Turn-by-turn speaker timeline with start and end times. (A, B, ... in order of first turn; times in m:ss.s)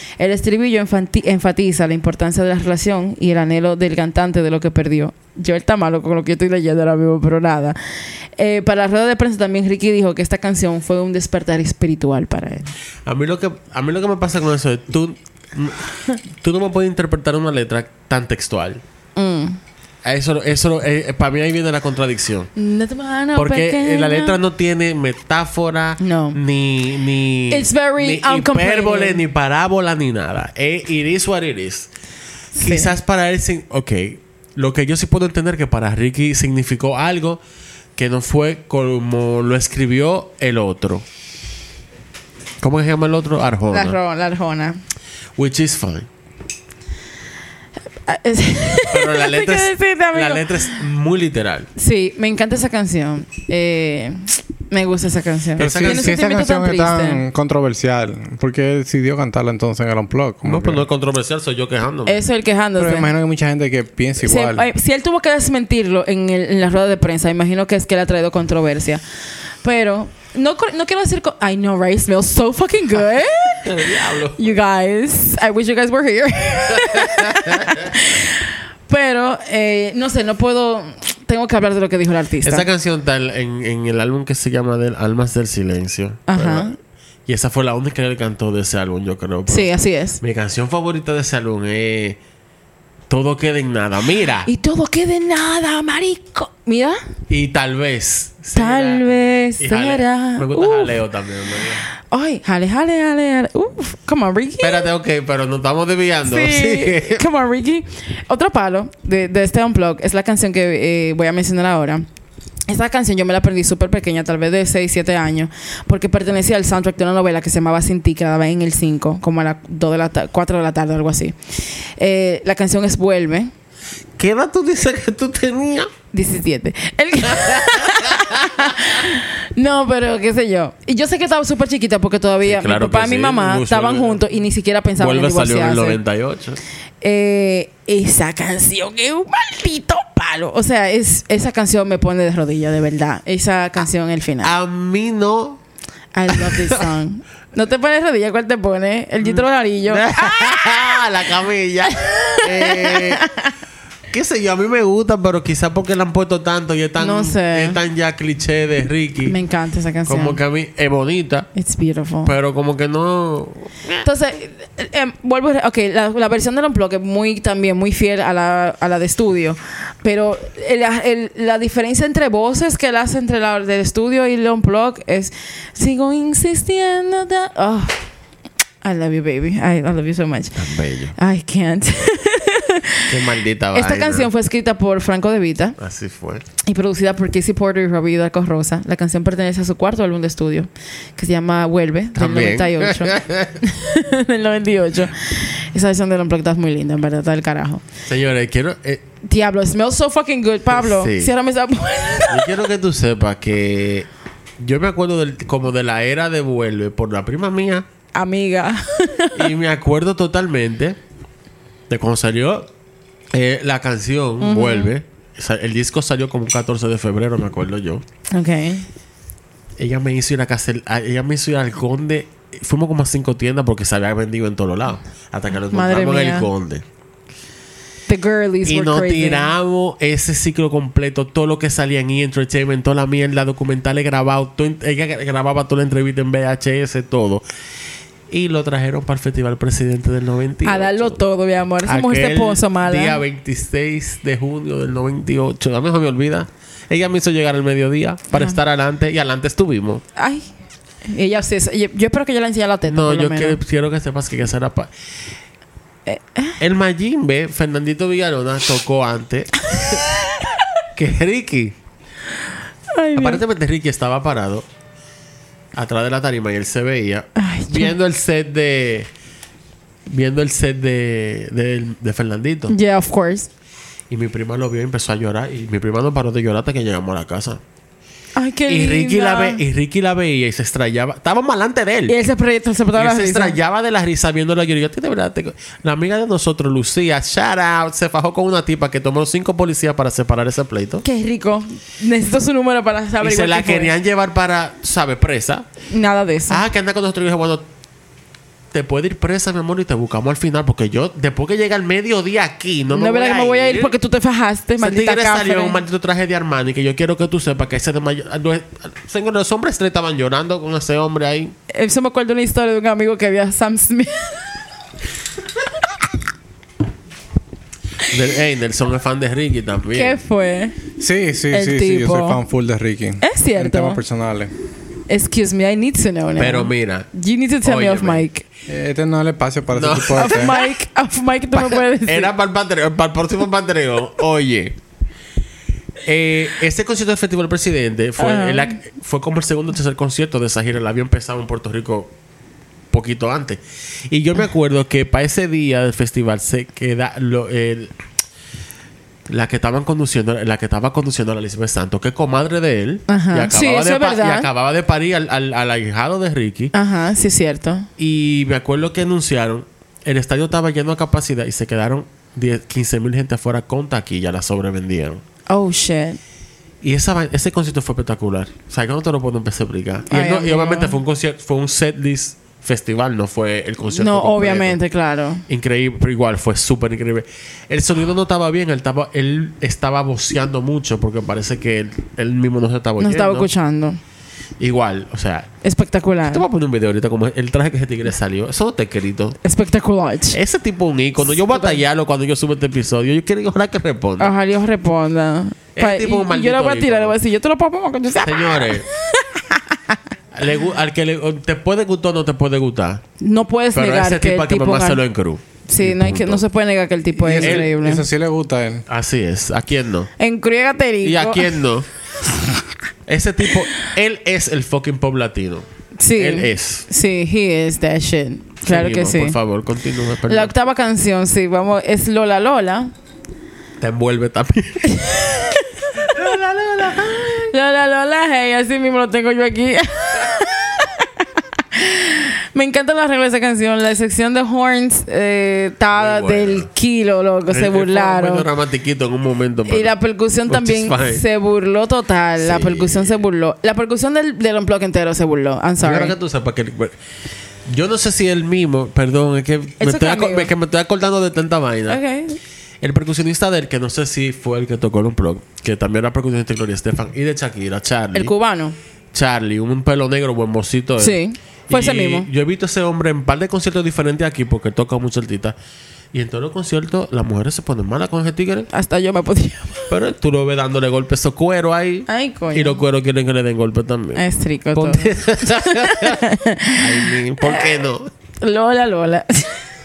0:00.2-0:07.8 A
0:08.4-0:12.7 A
0:13.0-0:18.8 B
0:19.2-0:19.6 A
0:20.0-0:22.5 B
0:22.6-0:24.4 A
0:23.3-0:31.9 B
0:26.0-0:26.4 A
0:27.5-0:29.2 A
0:32.6-0:32.9 A
0:32.6-0:37.4 B
0:38.0-0:41.0 B
0:42.6-0:44.0 B
0:43.7-0:44.8 A
0:45.4-0:46.1 B
0:48.0-0:50.7 A
0:48.9-0:51.7 B
0:51.8-0:57.2 A
0:55.6-0:56.2 B
0:55.6-1:00.8 C
1:00.4-1:02.2 B
1:02.0-1:03.1 A
1:02.8-1:04.6 C
1:04.2-1:09.0 A
1:09.6-1:22.7 A
1:13.6-1:14.4 B
1:16.8-1:17.8 B
1:22.4-1:26.7 B
1:26.3-1:26.7 A
1:27.3-1:32.2 B
1:29.5-1:30.2 A
1:33.1-1:34.5 B
1:34.4-1:37.0 A
1:37.3-1:39.0 B
1:38.5-1:41.0 A
1:39.6-1:41.8 B
1:42.1-1:44.9 A
1:44.6-1:47.2 B
1:46.2-1:52.0 A
1:52.7-2:01.4 A
2:02.0-2:03.5 A
2:04.2-2:05.9 B
2:06.1-2:16.0 A
2:07.3-2:08.6 B
2:12.4-2:14.2 B
2:15.0-2:16.6 B
2:17.0-2:24.5 A
2:24.4-2:25.6 B
2:26.1-2:30.9 A
2:26.3-2:26.8 B
2:29.2-2:33.2 B
2:32.0-2:33.5 A
2:34.1-2:39.3 B
2:37.0-2:37.8 A
2:39.3-2:40.4 A
2:40.1-2:41.5 B
2:41.5-2:42.3 A
2:42.2-2:44.0 B
2:44.0-2:58.0 A
2:58.8-3:00.6 A
3:00.6-3:01.1 B
3:01.2-3:03.2 A
3:03.1-3:04.3 B
3:03.7-3:05.8 A
3:05.8-3:06.4 B
3:06.6-3:17.8 A
3:12.1-3:13.6 B
3:18.0-3:19.0 B
3:19.2-3:22.5 A
3:20.7-3:21.3 B
3:22.3-3:24.1 B
3:24.6-3:27.8 B
3:28.1-3:29.5 A
3:29.3-3:31.0 B
3:31.9-3:32.7 B
3:33.3-3:38.0 B
3:34.4-3:34.9 A
3:38.3-3:38.8 A
3:39.8-3:46.8 B
3:45.7-3:46.5 A
3:48.1-3:49.5 A
3:48.6-3:57.4 B
3:58.3-4:01.2 B
4:00.6-4:03.2 A
4:01.8-4:10.0 B
4:10.2-4:10.5 A
4:11.0-4:13.6 A
4:12.9-4:14.9 B
4:16.1-4:16.6 A
4:16.6-4:20.0 B
4:19.8-4:20.4 A
4:21.0-4:21.8 B
4:22.9-4:23.4 A
4:23.2-4:24.6 B
4:25.7-4:29.1 B
4:27.4-4:27.9 A
4:30.1-4:32.7 B
4:32.7-4:33.5 A
4:34.1-4:37.6 B
4:38.4-4:39.6 A
4:38.7-4:42.2 B
4:42.1-4:43.6 A
4:42.9-4:51.0 B
4:51.0-4:53.9 A
4:53.2-4:55.6 B
4:55.9-4:56.6 A
4:56.5-4:57.6 B
4:58.7-5:03.9 B
5:02.9-5:05.8 A
5:04.8-5:11.5 B
5:11.7-5:14.5 A
5:18.1-5:20.2 B
5:19.9-5:20.8 A
5:21.0-5:24.5 C
5:21.5-5:22.4 A
5:23.2-5:24.0 A
5:25.1-5:28.4 A
5:26.4-5:27.1 B
5:27.6-5:28.2 B
5:28.7-5:30.5 C
5:29.7-5:30.7 B
5:30.1-5:32.3 A
5:31.5-5:34.8 B
5:36.0-5:42.1 B
5:38.2-5:38.7 A
5:42.9-5:47.9 B
5:49.3-5:56.7 B
5:53.1-5:54.5 A
5:56.7-5:57.9 A
5:58.0-6:05.2 B
6:05.5-6:06.2 A
6:06.8-6:14.8 B
6:10.1-6:11.0 A
6:13.9-6:15.4 A
6:15.5-6:23.5 B
6:23.0-6:24.0 A
6:24.6-6:25.5 B
6:25.6-6:26.4 A
6:26.3-6:29.4 B
6:29.4-6:30.4 A
6:30.3-6:34.3 B
6:31.3-6:31.8 A
6:34.2-6:40.0 A
6:35.8-6:37.2 B
6:38.2-6:38.8 B
6:40.3-6:43.0 B
6:43.2-6:45.0 A
6:43.7-6:46.4 B
6:45.7-6:48.0 A
6:47.2-6:48.8 C
6:47.4-6:47.7 B
6:48.9-6:50.1 B
6:50.2-6:51.5 A
6:51.0-6:51.8 B
6:53.1-6:56.8 B
6:56.0-6:59.4 A
6:58.6-7:00.5 B
7:00.3-7:02.9 A
7:03.8-7:05.4 B
7:04.9-7:06.3 A
7:06.0-7:07.5 B
7:07.4-7:18.4 A
7:15.9-7:16.7 B
7:17.5-7:19.9 B
7:19.7-7:26.1 A
7:20.5-7:21.2 B
7:22.4-7:23.2 B
7:25.8-7:26.9 B
7:27.7-7:32.0 B
7:29.8-7:30.5 A
7:31.9-7:32.4 A
7:32.8-7:38.3 B
7:38.1-7:38.8 A
7:39.1-7:45.5 B
7:41.0-7:42.3 A
7:46.1-7:48.7 B
7:48.7-7:49.9 A
7:49.9-7:56.2 B
7:52.1-7:52.8 A
7:54.2-7:57.8 A
7:56.8-7:58.1 B
7:58.4-7:59.6 A